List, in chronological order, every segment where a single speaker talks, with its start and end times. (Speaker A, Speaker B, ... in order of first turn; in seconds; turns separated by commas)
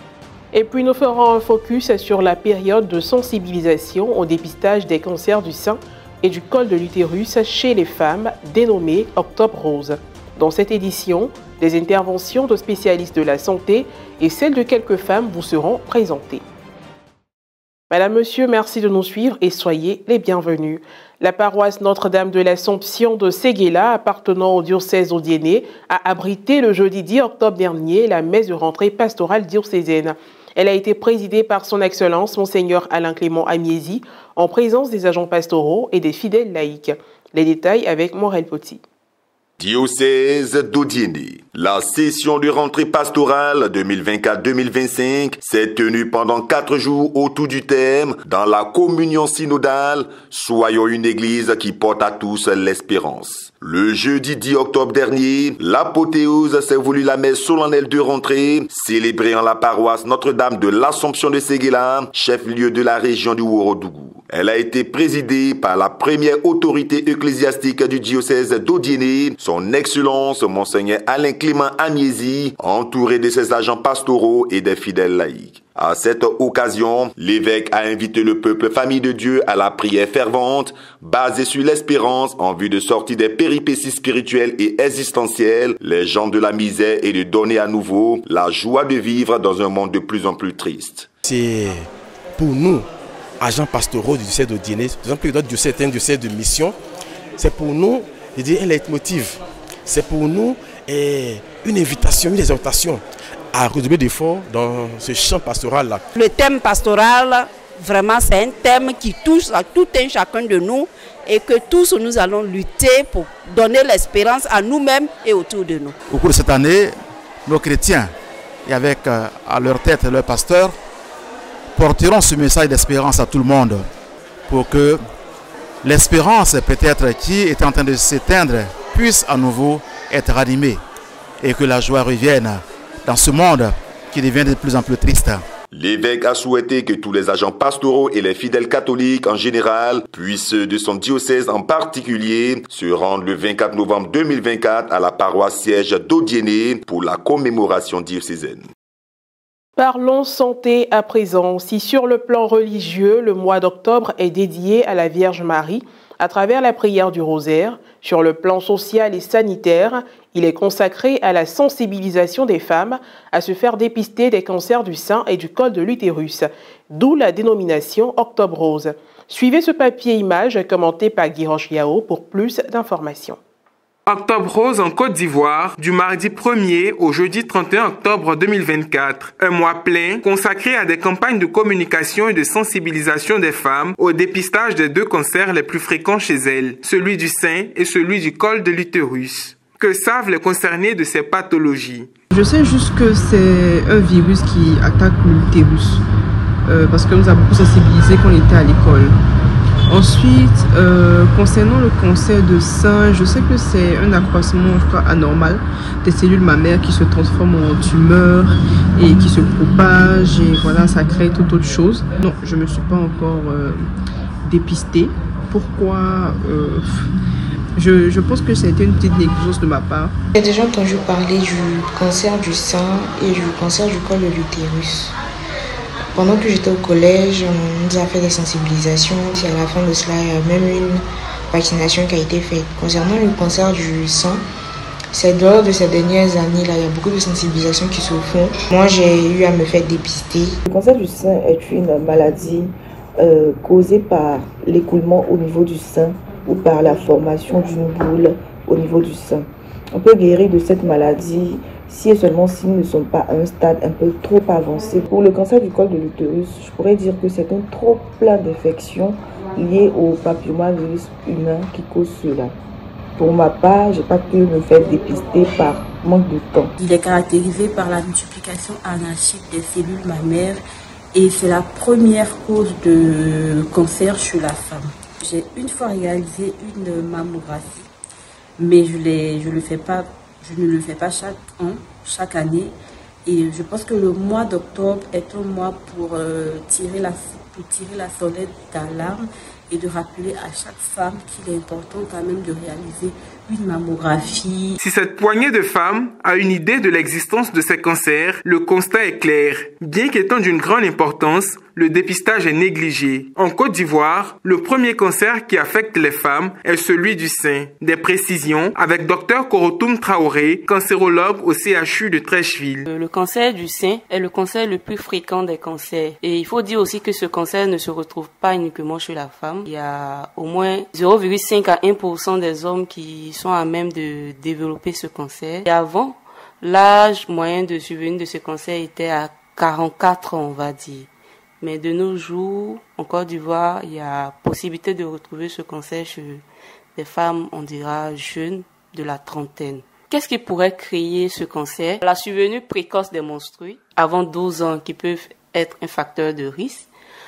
Speaker A: 0.5-16.4, Speaker A: 17.9-38.8, Speaker B: 39.6-91.1, Speaker C: 91.2-92.9, Speaker C: 93.4-96.8, Speaker C: 97.4-106.0, Speaker D: 106.1-116.0, Speaker E: 116.1-116.9, Speaker E: 117.5-118.1, Speaker E: 118.7-120.7, Speaker E: 121.7-123.8, Speaker E: 124.5-125.0, Speaker E: 125.8-130.8, Speaker E: 131.4-135.4, Speaker B: 135.7-148.7, Speaker A: 149.8-173.4, Speaker F: 174.1-192.1, Speaker G: 192.3-196.0, Speaker G: 196.7-199.2, Speaker G: 199.9-213.8, Speaker G: 214.4-216.8, Speaker G: 217.8-220.1, Speaker H: 220.3-225.1, Speaker H: 226.1-234.4, Speaker H: 235.1-240.6, Speaker I: 240.7-262.5, Speaker I: 263.2-266.7, Speaker J: 266.8-270.6, Speaker J: 271.1-277.9, Speaker J: 278.6-282.7, Speaker J: 283.2-294.7, Speaker F: 294.8-312.8, Speaker K: 312.9-331.1, Speaker K: 331.6-336.4, Speaker K: 336.9-346.9